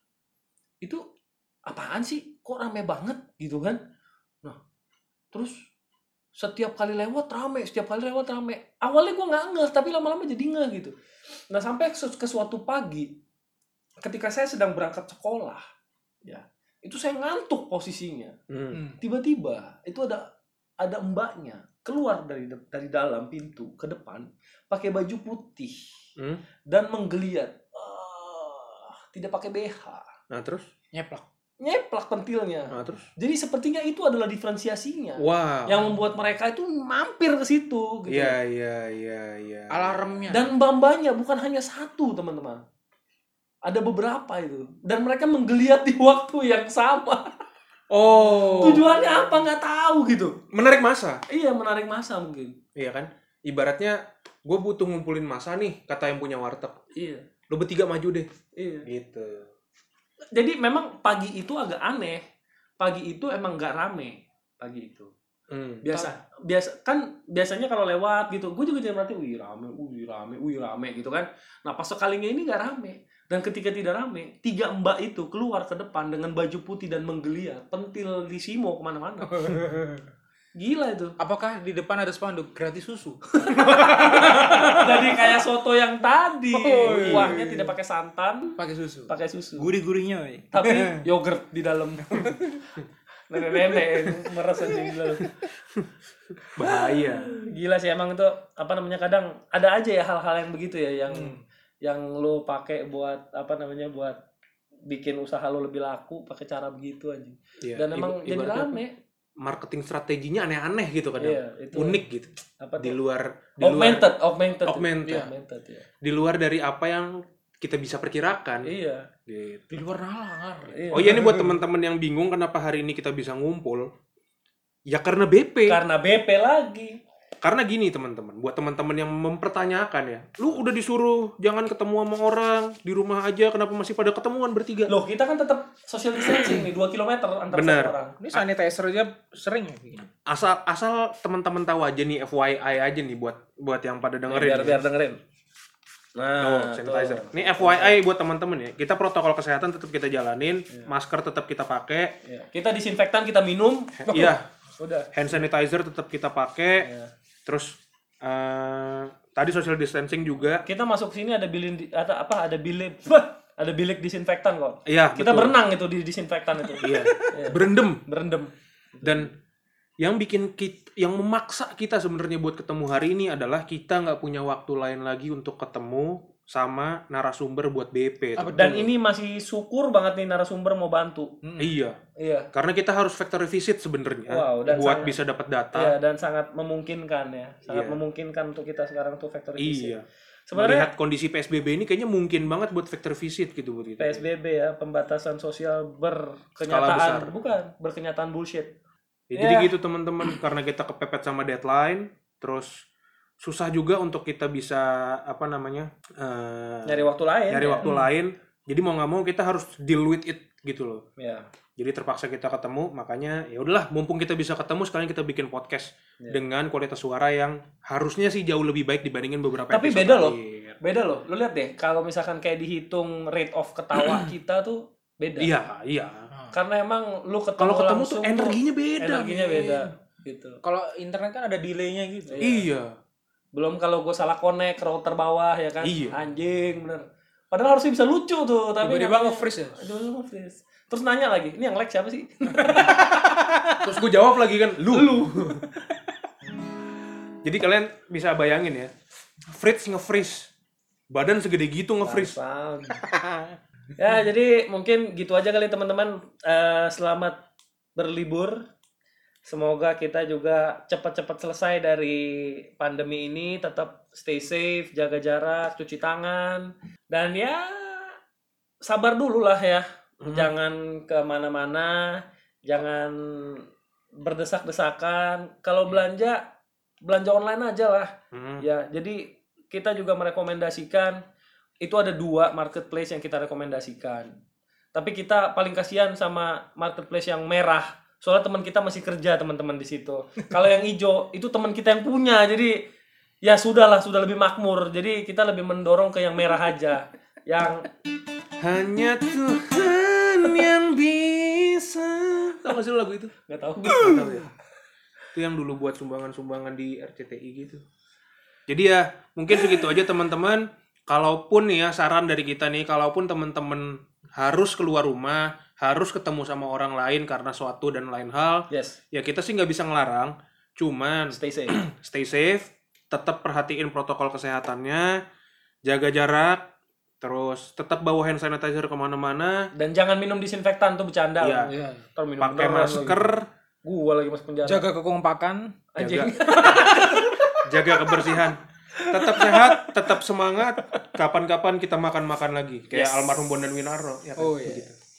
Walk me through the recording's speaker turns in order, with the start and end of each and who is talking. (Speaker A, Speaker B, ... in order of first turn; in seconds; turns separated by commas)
Speaker A: 1.6-3.8, Speaker A: 5.3-5.7, Speaker A: 6.3-10.9, Speaker A: 11.5-13.2, Speaker A: 14.0-15.6, Speaker A: 16.2-18.4, Speaker B: 18.5-18.8, Speaker C: 18.7-19.0, Speaker A: 19.0-20.3, Speaker A: 20.8-25.8, Speaker A: 26.7-30.1, Speaker B: 30.3-30.7, Speaker C: 30.9-31.2, Speaker A: 31.6-38.4, Speaker B: 32.7-33.1, Speaker B: 35.2-35.8, Speaker B: 38.1-40.0, Speaker C: 39.7-40.5, Speaker A: 40.3-42.6, Speaker A: 43.6-47.4, Speaker B: 47.9-48.8, Speaker A: 48.6-50.4, Speaker B: 50.5-51.2, Speaker A: 51.3-52.6, Speaker B: 52.7-56.8, Speaker A: 56.9-57.2, Speaker B: 57.5-58.3, Speaker A: 58.5-58.9, Speaker B: 58.8-59.5, Speaker A: 60.3-62.2, Speaker A: 62.8-65.1, Speaker B: 65.5-65.9, Speaker A: 65.8-79.7, Speaker C: 79.3-80.0, Speaker A: 80.5-81.2, Speaker C: 81.2-85.4, Speaker A: 83.4-89.7, Speaker B: 83.5-84.5, Speaker C: 86.5-87.7, Speaker B: 86.9-87.4, Speaker C: 88.6-91.0, Speaker A: 90.5-92.4, Speaker C: 92.0-92.6, Speaker A: 93.3-95.3, Speaker C: 93.5-93.9, Speaker C: 94.6-95.0, Speaker B: 96.4-97.4, Speaker A: 96.6-104.2, Speaker C: 101.1-101.4, Speaker A: 104.8-109.0, Speaker B: 107.6-108.8, Speaker B: 109.4-114.1, Speaker A: 111.2-112.0, Speaker A: 112.6-113.0, Speaker A: 113.6-115.8, Speaker B: 114.6-115.3, Speaker C: 115.0-115.3, Speaker B: 116.0-118.7, Speaker A: 118.6-119.1, Speaker B: 119.3-119.6, Speaker C: 119.7-121.6, Speaker A: 120.7-121.2, Speaker B: 120.9-123.9, Speaker B: 124.9-125.8, Speaker A: 125.7-127.0, Speaker B: 127.4-134.9, Speaker A: 134.9-138.2, Speaker B: 136.2-136.7, Speaker B: 137.5-138.4, Speaker C: 138.2-140.1, Speaker B: 140.2-144.8, Speaker A: 144.3-145.2, Speaker A: 146.2-148.0, Speaker B: 146.4-152.1, Speaker A: 152.2-155.4, Speaker B: 154.0-154.4, Speaker B: 155.1-156.9, Speaker A: 156.8-157.1, Speaker B: 157.4-160.6, Speaker A: 160.6-169.3, Speaker B: 164.9-165.5, Speaker B: 166.8-168.0, Speaker B: 169.0-169.3, Speaker B: 170.0-178.6, Speaker C: 178.4-178.9, Speaker A: 178.6-181.3, Speaker C: 181.4-181.8, Speaker B: 181.6-182.0, Speaker A: 182.2-182.5, Speaker B: 182.5-185.9, Speaker A: 184.3-185.2, Speaker A: 185.7-189.9, Speaker B: 187.7-188.0, Speaker B: 189.6-194.2, Speaker A: 190.5-190.9, Speaker A: 194.0-198.7, Speaker B: 196.7-197.5, Speaker B: 199.3-202.8, Speaker A: 199.3-199.7, Speaker B: 203.4-211.0, Speaker A: 206.8-207.9, Speaker C: 207.8-208.1, Speaker A: 211.2-211.4, Speaker B: 211.8-220.8, Speaker A: 219.7-225.5, Speaker B: 223.9-224.3, Speaker B: 225.4-226.3, Speaker A: 226.5-230.6, Speaker B: 227.6-229.9, Speaker C: 230.6-232.6, Speaker A: 232.3-232.6, Speaker B: 232.4-232.9, Speaker A: 233.5-243.0, Speaker B: 235.8-236.2, Speaker C: 238.8-239.9, Speaker C: 242.5-243.8, Speaker B: 243.8-245.6, Speaker A: 244.9-245.9, Speaker B: 247.4-248.9, Speaker B: 249.5-250.5, Speaker B: 251.1-252.4, Speaker A: 252.0-253.0, Speaker C: 253.0-253.5, Speaker A: 253.9-257.4, Speaker A: 257.9-258.6, Speaker A: 259.4-268.2, Speaker A: 268.8-273.6, Speaker B: 270.2-270.5, Speaker A: 274.2-276.4, Speaker A: 277.0-281.2, Speaker B: 278.3-278.6, Speaker A: 281.8-284.3, Speaker A: 284.9-292.8, Speaker A: 293.4-297.9, Speaker B: 298.6-303.3, Speaker A: 303.5-304.4, Speaker B: 303.8-304.5, Speaker C: 304.0-304.3, Speaker B: 305.3-307.8, Speaker B: 308.7-325.2, Speaker A: 318.7-319.0, Speaker A: 321.3-321.8, Speaker B: 325.8-326.6, Speaker B: 327.2-329.7, Speaker A: 329.7-334.9, Speaker B: 331.4-331.7, Speaker C: 331.7-332.1, Speaker B: 332.4-333.5, Speaker C: 334.6-337.3, Speaker A: 335.9-338.2, Speaker B: 336.0-336.3, Speaker B: 337.6-344.9, Speaker A: 339.0-339.9, Speaker A: 342.9-343.3, Speaker C: 344.4-344.9